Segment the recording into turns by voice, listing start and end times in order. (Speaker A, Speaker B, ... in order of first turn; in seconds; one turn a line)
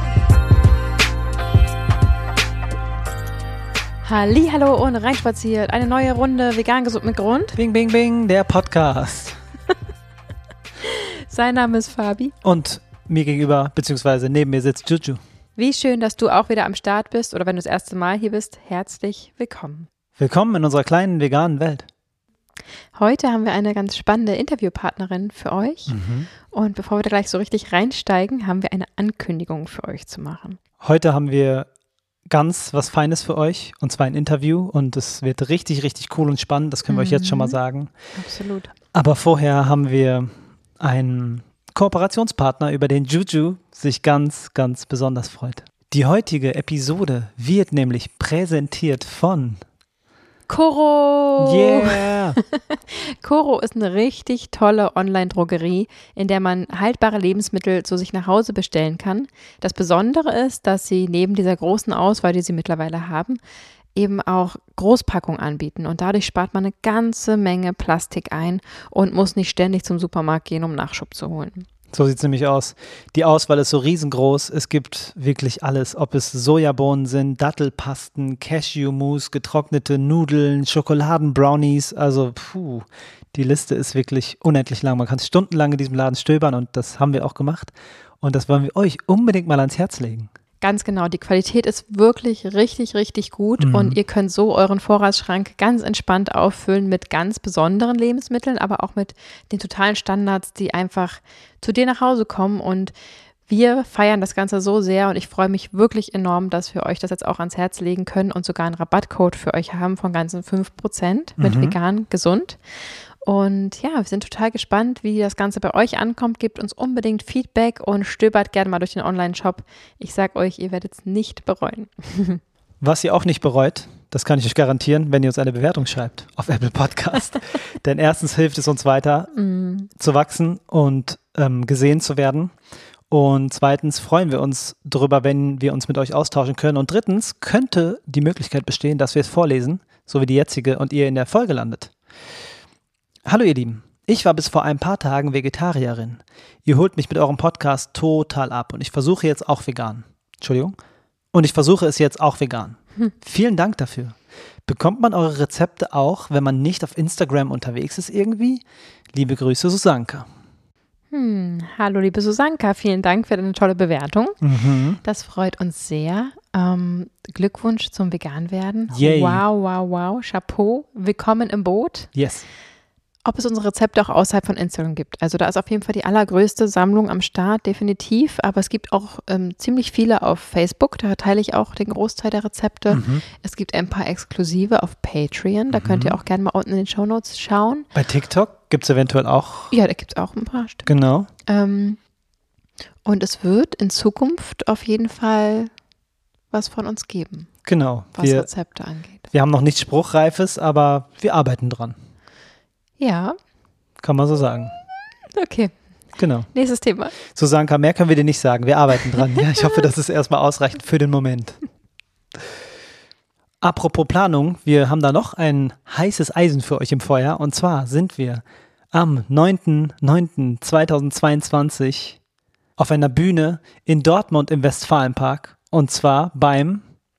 Speaker A: 4.0-7.6
Speaker B: 7.5-9.4
Speaker A: 10.8-12.3
Speaker B: 12.4-15.2
Speaker A: 15.6-19.9
Speaker B: 20.2-21.9
Speaker A: 22.9-25.9
Speaker B: 25.9-26.3
Speaker A: 26.5-30.6
Speaker B: 30.8-31.7
Speaker B: 32.3-37.9
Speaker A: 36.9-37.6
Speaker A: 38.1-38.7
Speaker B: 38.9-49.6
Speaker A: 50.5-63.4
Speaker B: 51.4-52.4
Speaker A: 63.9-71.7
Speaker B: 71.9-90.3
Speaker A: 90.6-102.9
Speaker B: 93.6-94.0
Speaker A: 103.5-112.6
Speaker B: 111.4-111.8
Speaker A: 113.2-122.4
Speaker B: 122.8-129.3
Speaker A: 129.3-129.9
Speaker B: 129.9-132.5
Speaker B: 133.1-141.9
Speaker B: 143.2-150.8
Speaker B: 151.3-160.3
Speaker A: 161.1-164.4
Speaker B: 164.4-165.0
Speaker A: 165.0-172.1
Speaker B: 168.9-169.4
Speaker B: 172.1-172.4
Speaker A: 173.2-187.9
Speaker B: 182.9-183.2
Speaker B: 185.7-186.2
Speaker B: 187.9-189.7
Speaker A: 189.7-190.9
Speaker B: 190.8-191.3
Speaker A: 191.4-192.0
Speaker A: 193.0-195.7
Speaker A: 196.5-197.6
Speaker B: 197.6-198.5
Speaker A: 198.1-199.2
Speaker B: 199.3-202.0
Speaker A: 203.0-203.3
Speaker B: 204.0-204.7
Speaker A: 205.3-205.7
Speaker B: 206.2-206.5
Speaker A: 206.5-207.1
Speaker B: 207.3-211.6
Speaker B: 213.6-222.2
Speaker B: 222.8-226.8